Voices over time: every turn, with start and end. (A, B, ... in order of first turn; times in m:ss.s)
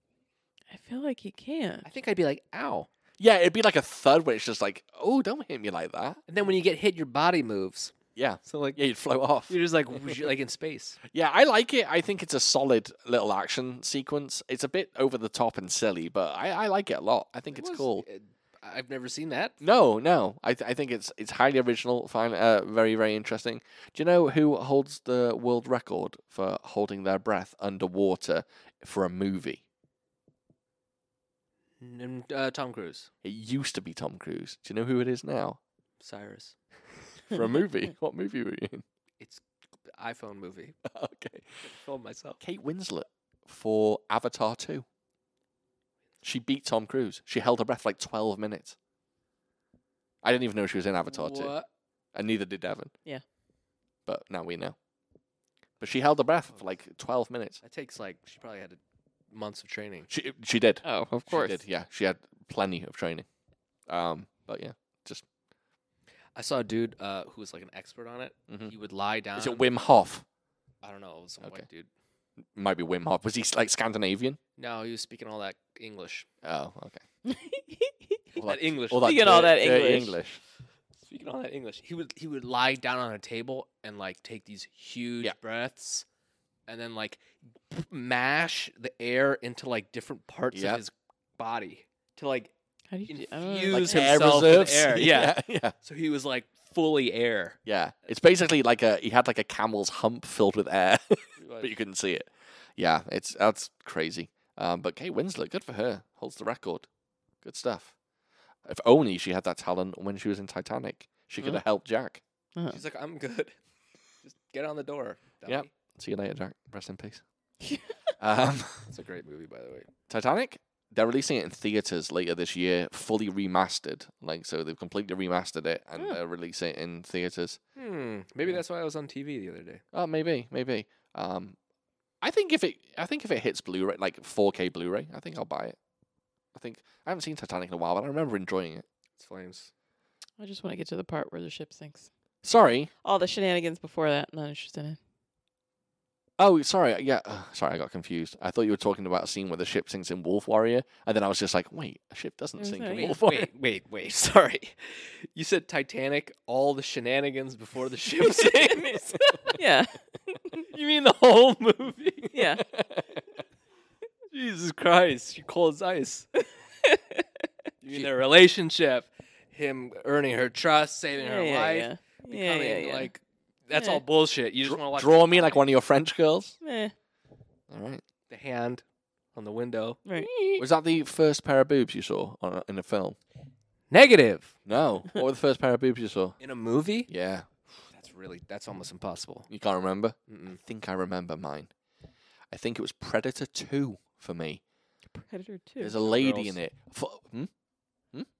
0:00.7-0:01.9 A
0:01.8-0:02.9 B
0:03.2-0:06.2 C
0:06.3-0:08.8 B
0:08.2-0:10.3 C
0:09.5-0:11.0 B
0:11.1-0:18.0 C
0:17.5-0:19.6 B
0:19.6-0:29.6 C
0:31.8-0:33.1 B
0:33.2-0:35.6 C
0:36.0-0:36.6 B
0:37.3-0:38.8 C
0:40.0-0:40.7 B
0:40.8-0:41.6 C
0:41.6-0:42.4 B
0:42.4-0:44.8 C
0:46.2-0:48.8 C
0:50.2-0:51.5 C
0:51.1-0:51.6 B
0:52.1-0:52.9 C
0:54.0-0:54.8 C
0:55.8-0:57.6 C
0:57.6-0:58.8 B
0:59.3-1:00.1 B
1:00.1-1:03.3 C
1:00.8-1:01.6 A
1:03.9-1:05.2 C
1:06.4-1:09.6 B
1:09.4-1:10.2 C
1:10.8-1:11.9 B
1:12.6-1:14.4 C
1:14.6-1:16.3 B
1:16.4-1:17.0 C
1:17.3-1:18.4 A
1:18.4-1:20.4 C
1:18.4-1:19.3 B
1:19.0-1:20.2 A
1:21.0-1:26.0 B
1:26.7-1:32.5 B
1:30.5-1:30.8 C
1:32.9-1:34.1 A
1:33.1-1:37.6 B
1:33.7-1:35.7 C
1:37.6-1:46.9 C
1:41.4-1:41.7 B
1:47.4-1:47.9 C
1:48.6-1:52.2 C
1:52.7-1:53.5 B
1:54.2-1:55.7 B
1:55.4-1:57.2 C
1:58.2-1:58.9 C
1:58.9-1:59.9 B
2:00.1-2:07.6 C
2:07.8-2:09.8 B
2:09.9-2:11.6 C
2:12.2-2:15.8 C
2:16.6-2:18.8 C
2:19.2-2:19.7 B
2:20.4-2:22.1 A
2:22.4-2:22.9 C
2:23.0-2:25.0 A
2:26.4-2:33.5 C
2:32.6-2:33.2 A
2:32.9-2:39.6 B
2:38.2-2:39.0 A
2:39.6-2:40.6 A
2:40.7-2:42.4 B
2:42.3-2:42.6 A
2:44.3-2:46.3 B
2:46.8-2:47.2 A
2:47.8-2:55.6 B
2:51.2-2:53.1 A
2:53.7-2:54.0 A
2:54.6-2:56.6 C
2:56.6-2:56.9 A
2:57.7-2:58.0 C
2:58.3-2:58.8 B
2:59.3-3:00.5 B
3:00.0-3:00.6 A
3:00.6-3:03.2 C
3:03.9-3:04.6 B
3:04.6-3:06.3 C
3:06.4-3:07.1 B
3:07.1-3:07.4 C
3:07.9-3:09.5 B
3:09.5-3:11.7 C
3:10.3-3:10.6 B
3:12.5-3:14.6 C
3:15.1-3:15.9 A
3:15.8-3:17.5 C
3:16.0-3:16.6 B